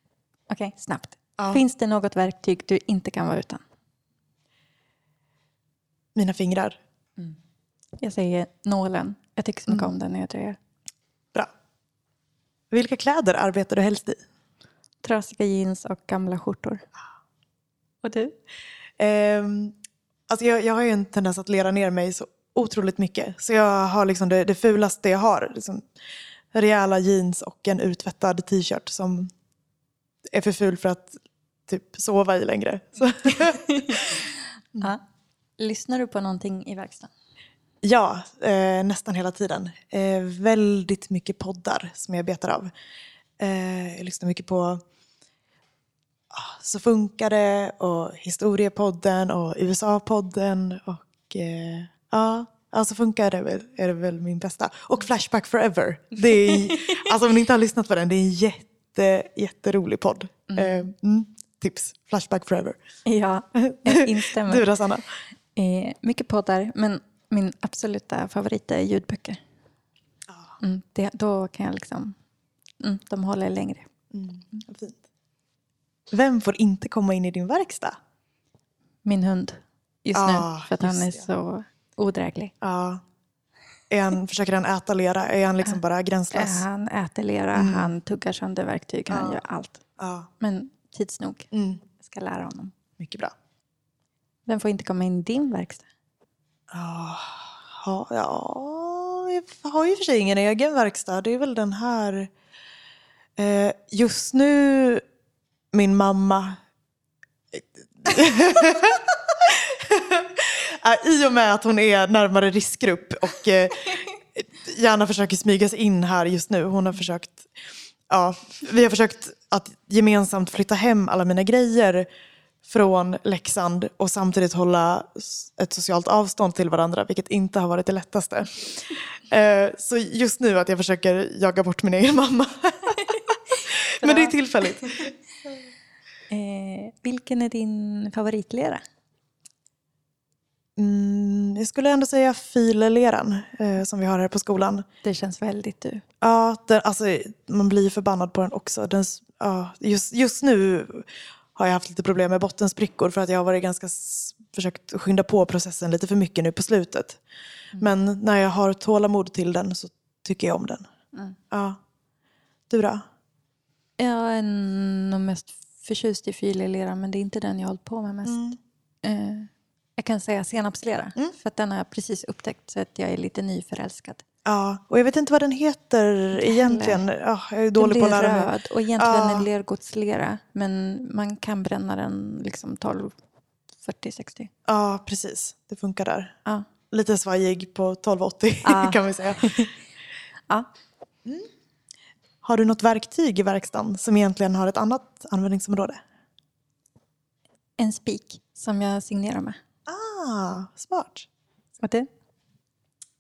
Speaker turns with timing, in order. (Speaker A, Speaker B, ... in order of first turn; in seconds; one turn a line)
Speaker A: 0.5-3.6
Speaker B: 6.2-6.8
Speaker A: 8.0-10.6
Speaker B: 12.7-14.2
Speaker A: 15.0-16.8
Speaker A: 18.0-18.3
Speaker B: 19.0-19.8
Speaker B: 20.3-25.9
Speaker B: 26.5-29.3
Speaker B: 30.3-31.1
Speaker B: 31.7-34.2
Speaker A: 33.2-34.3
Speaker A: 35.6-37.1
Speaker B: 37.8-42.7
Speaker B: 43.4-44.8
Speaker B: 46.3-62.8
Speaker A: 56.3-57.1
Speaker A: 60.5-60.9
Speaker A: 63.1-64.7
Speaker B: 63.5-65.1
Speaker A: 65.6-69.4
Speaker A: 70.6-72.2
Speaker A: 72.8-73.9
Speaker B: 74.1-75.0
Speaker B: 76.1-78.0
Speaker A: 79.0-82.5
Speaker B: 80.1-81.2
Speaker B: 82.6-83.0
Speaker B: 83.9-86.6
Speaker A: 86.3-89.8
Speaker B: 87.6-87.9
Speaker B: 89.1-89.4
Speaker B: 90.0-90.3
Speaker A: 90.4-92.7
Speaker B: 91.5-91.8
Speaker B: 93.0-93.3
Speaker A: 94.5-95.9
Speaker B: 96.7-102.3
Speaker B: 103.4-105.0
Speaker B: 105.7-106.6
Speaker B: 107.5-117.5
Speaker B: 118.1-122.1
Speaker B: 122.7-135.1
Speaker A: 134.0-135.1
Speaker A: 136.3-138.8
Speaker B: 140.8-144.8
Speaker A: 145.0-146.0
Speaker B: 146.2-157.2
Speaker B: 157.8-160.9
Speaker B: 161.5-161.8
Speaker B: 162.7-163.1
Speaker A: 164.0-168.4
Speaker B: 168.3-168.6
Speaker A: 169.0-174.2
Speaker B: 174.4-179.5
Speaker A: 176.4-177.0
Speaker A: 177.8-183.2
Speaker A: 183.8-184.5
Speaker B: 184.7-186.3
Speaker B: 186.9-189.7
Speaker A: 188.6-189.7
Speaker B: 192.4-196.0
Speaker A: 197.8-199.6
Speaker B: 199.9-201.3
Speaker A: 201.8-202.1